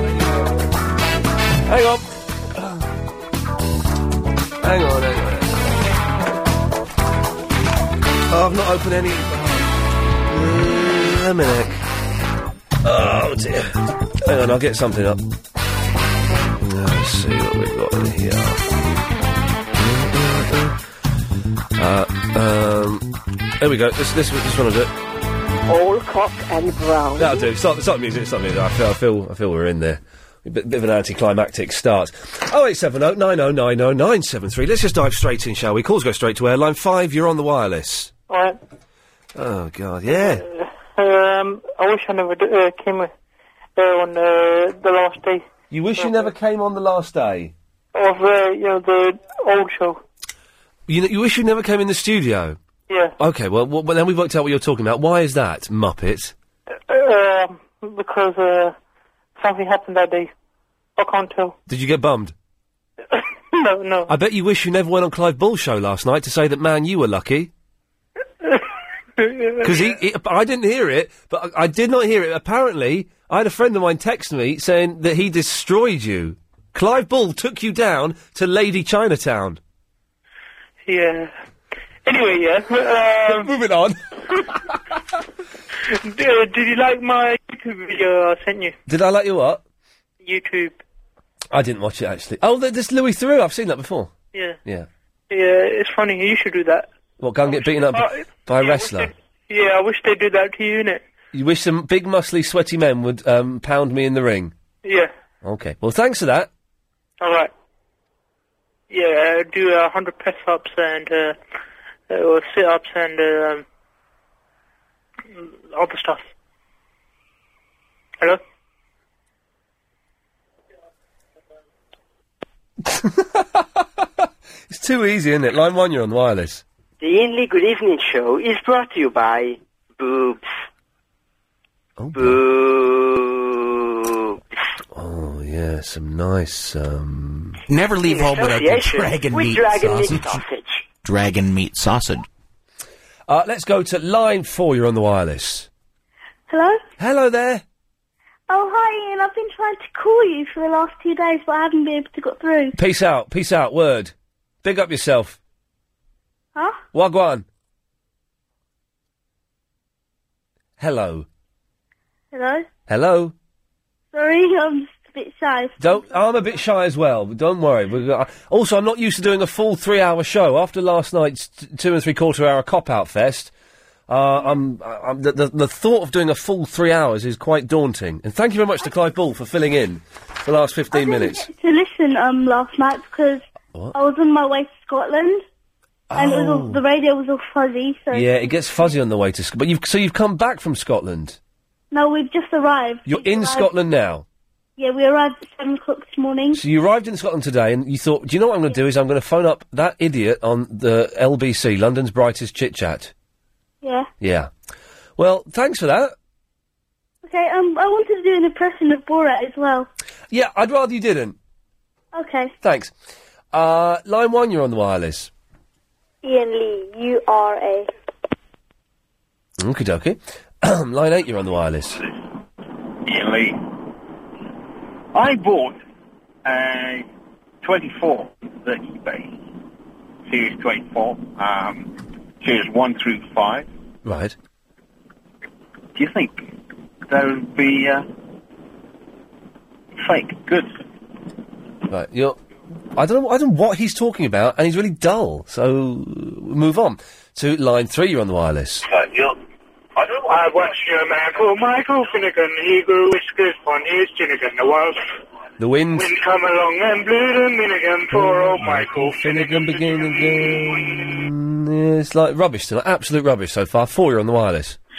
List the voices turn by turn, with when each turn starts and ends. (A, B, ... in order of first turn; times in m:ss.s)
0:01.7-0:02.9 A
0:04.6-0:05.9 A
0:08.3-0:09.7 A
0:10.3-0:11.8 A
0:12.8-0:15.2 A
0:16.6-0:18.6 A
0:19.7-0:20.8 A
0:21.8-0:23.1 A
0:23.6-0:24.9 A
0:27.2-0:38.1 A
0:38.3-0:38.6 B
0:39.3-0:40.4 A
0:40.1-0:43.1 B
0:43.8-0:45.4 B
0:45.7-0:47.5 A
0:46.0-0:46.3 B
0:47.9-0:50.0 B
0:50.9-0:52.6 A
0:52.9-0:53.1 B
0:53.2-0:56.3 A
0:56.9-0:58.7 B
0:59.4-1:00.3 B
1:01.0-1:01.5 B
1:01.7-1:02.3 A
1:03.5-1:04.1 B
1:04.1-1:07.5 A
1:09.2-1:09.9 B
1:09.6-1:19.6 A
1:20.9-1:21.3 B
1:22.1-1:23.5 B
1:23.3-1:24.0 A
1:25.9-1:28.7 B
1:28.9-1:29.6 A
1:30.2-1:30.8 B
1:31.5-1:34.1 A
1:35.3-1:36.9 B
1:37.2-1:39.1 A
1:37.9-1:41.0 B
1:41.3-1:44.5 A
1:44.8-1:45.1 B
1:45.4-1:46.5 A
1:47.2-1:47.5 B
1:48.9-1:51.4 B
1:52.1-1:53.6 B
1:55.3-1:56.3 B
2:02.8-2:06.6 A
2:07.0-2:10.1 C
2:12.0-2:12.4 A
2:14.9-2:17.6 A
2:17.7-2:20.4 D
2:18.2-2:20.2 C
2:21.0-2:22.2 D
2:23.3-2:25.7 A
2:26.5-2:26.8 E
2:27.0-2:27.6 A
2:28.5-2:32.8 E
2:32.8-2:35.4 A
2:36.9-2:37.5 A
2:40.8-2:41.3 A
2:42.3-2:42.6 E
2:42.9-2:43.3 A
2:44.1-2:45.9 E
2:45.8-2:53.5 A
2:54.1-3:01.5 A
3:00.9-3:03.4 E
3:03.9-3:05.4 E
3:06.1-3:06.8 A
3:06.2-3:08.4 E
3:08.1-3:11.4 A
3:11.9-3:13.7 E
3:13.1-3:14.2 A
3:14.8-3:16.6 E
3:16.5-3:23.1 A
3:23.8-3:24.1 E
3:24.2-3:24.5 A
3:25.2-3:26.2 A
3:27.2-3:29.9 E
3:30.3-3:31.4 A
3:32.1-3:32.5 E
3:32.6-3:32.9 A
3:33.5-3:35.3 A
3:36.2-3:37.9 E
3:39.6-3:42.0 A
3:43.0-3:43.6 F
3:45.1-3:45.8 F
3:46.5-3:47.1 F
3:47.6-3:49.4 F
3:50.2-3:53.7 F
3:54.0-3:54.3 A
3:55.9-3:56.5 F
3:57.1-3:58.0 F
4:00.0-4:00.7 F
4:01.9-4:02.4 A
4:02.9-4:08.9 A
4:09.0-4:09.3 F
4:11.4-4:14.5 B
4:15.6-4:16.1 A
4:16.0-4:17.5 B
4:18.1-4:24.8 A
4:18.1-4:18.8 B